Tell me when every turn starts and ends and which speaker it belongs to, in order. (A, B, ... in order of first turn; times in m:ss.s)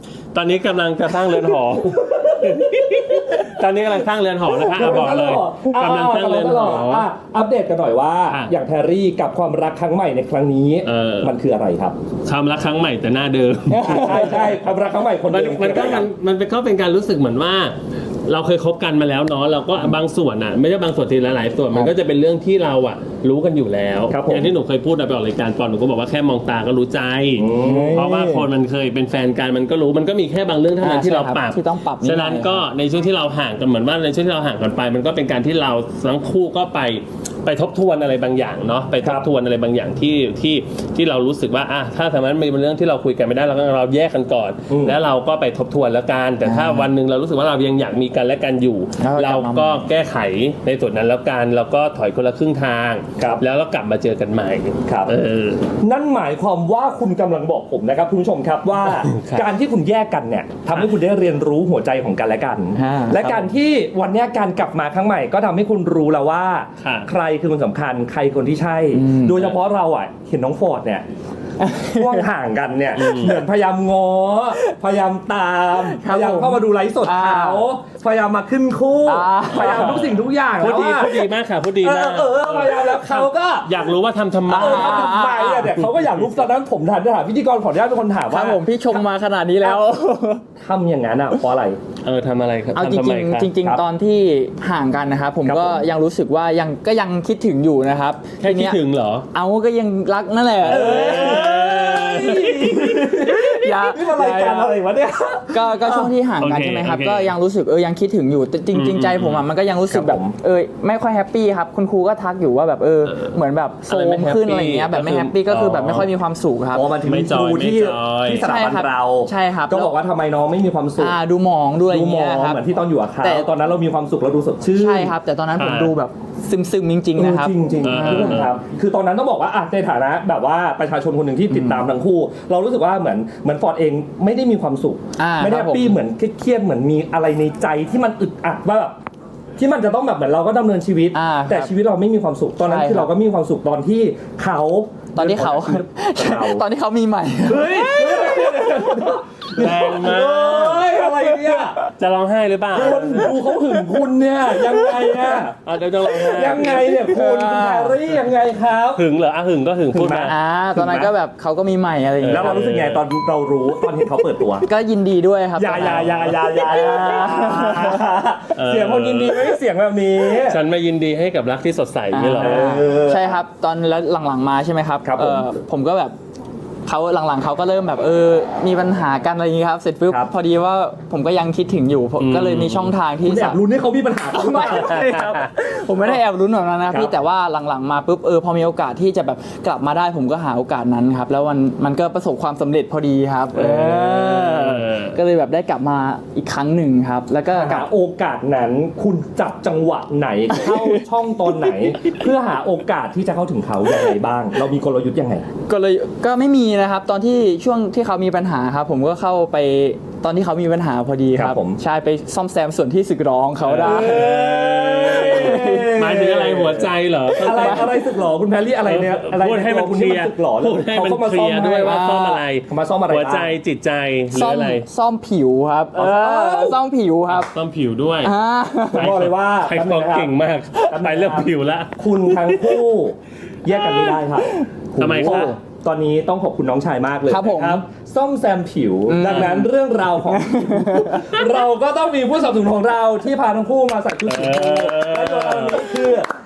0:00.3-0:07.1 A
0:01.5-0:03.5 B
0:04.6-0:12.0 B
0:10.8-0:11.3 A
0:12.2-0:14.4 A
0:13.7-0:14.4 C
0:13.7-0:16.1 B
0:15.3-0:55.7 A
0:24.1-0:24.6 B
0:27.4-0:28.0 B
0:27.6-0:28.5 C
0:30.8-0:32.7 C
0:39.0-0:39.3 B
0:44.7-0:45.0 B
0:46.4-0:46.9 C
0:49.0-0:49.9 C
0:53.2-0:53.4 B
0:54.8-0:55.1 B
0:55.8-1:11.1 B
0:59.0-0:59.4 A
1:02.8-1:03.4 C
1:06.8-1:07.1 A
1:08.9-1:09.5 C
1:11.6-1:12.3 C
1:11.9-1:21.3 B
1:13.0-1:13.4 A
1:15.8-1:17.7 C
1:19.0-1:20.1 C
1:19.5-1:25.2 A
1:21.8-1:23.8 B
1:24.5-1:25.7 C
1:24.5-1:29.0 B
1:25.8-1:26.2 A
1:28.3-1:30.4 C
1:30.6-1:31.8 B
1:32.0-1:33.5 A
1:32.7-1:38.8 C
1:33.6-1:33.8 B
1:35.4-1:35.9 B
1:38.4-1:39.3 A
1:39.3-1:41.5 C
1:40.6-1:46.2 B
1:40.6-1:43.1 A
1:43.4-1:44.8 C
1:45.5-1:56.9 C
1:46.4-1:47.4 A
1:48.7-1:49.5 A
1:49.9-1:50.4 B
1:53.1-1:53.4 A
1:53.9-1:56.1 A
1:56.7-2:01.2 B
1:57.0-1:58.5 A
1:58.4-2:00.0 C
2:01.0-2:02.6 C
2:01.9-2:05.2 B
2:03.2-2:03.5 C
2:04.7-2:08.5 C
2:05.6-2:05.9 A
2:07.1-2:19.0 B
2:07.8-2:08.5 A
2:11.5-2:11.9 C
2:15.2-2:16.0 C
2:19.6-2:26.6 B
2:21.1-2:21.7 C
2:22.6-2:23.1 C
2:25.2-2:28.8 C
2:27.4-2:31.8 B
2:29.6-2:30.8 A
2:31.9-2:33.4 A
2:32.7-2:35.6 B
2:34.9-2:35.2 C
2:35.6-2:37.0 A
2:36.2-2:39.0 B
2:37.0-2:38.0 C
2:39.0-2:40.3 A
2:39.9-2:41.1 B
2:40.2-2:42.6 C
2:42.2-2:43.0 A
2:42.2-2:44.7 B
2:44.6-2:48.0 C
2:45.6-2:50.6 B
2:48.6-2:49.4 A
2:50.5-2:52.8 A
2:52.1-2:56.2 C
2:52.4-2:53.4 B
2:55.0-2:55.6 B
2:56.9-3:03.6 C
3:02.2-3:03.0 A
3:03.2-3:05.4 B
3:04.3-3:17.9 C
3:06.9-3:07.2 B
3:13.5-3:15.2 A
3:17.5-3:25.5 B
3:25.7-3:36.1 C
3:31.3-3:31.8 B
3:33.6-3:38.0 A
3:33.8-3:42.0 B
3:37.4-3:38.0 C
3:38.8-3:44.9 A
3:41.8-3:42.4 C
3:42.7-3:43.6 B
3:44.3-3:47.5 C
3:45.9-3:46.8 B
3:47.3-3:48.3 A
3:48.2-3:49.1 C
3:48.9-4:06.3 B
3:48.9-3:52.6 A
3:54.1-3:55.6 C
3:55.0-3:55.6 A
3:57.3-3:57.8 C
3:59.1-3:59.7 C
3:59.2-3:59.5 A
4:00.3-4:01.3 C
4:04.3-4:06.2 A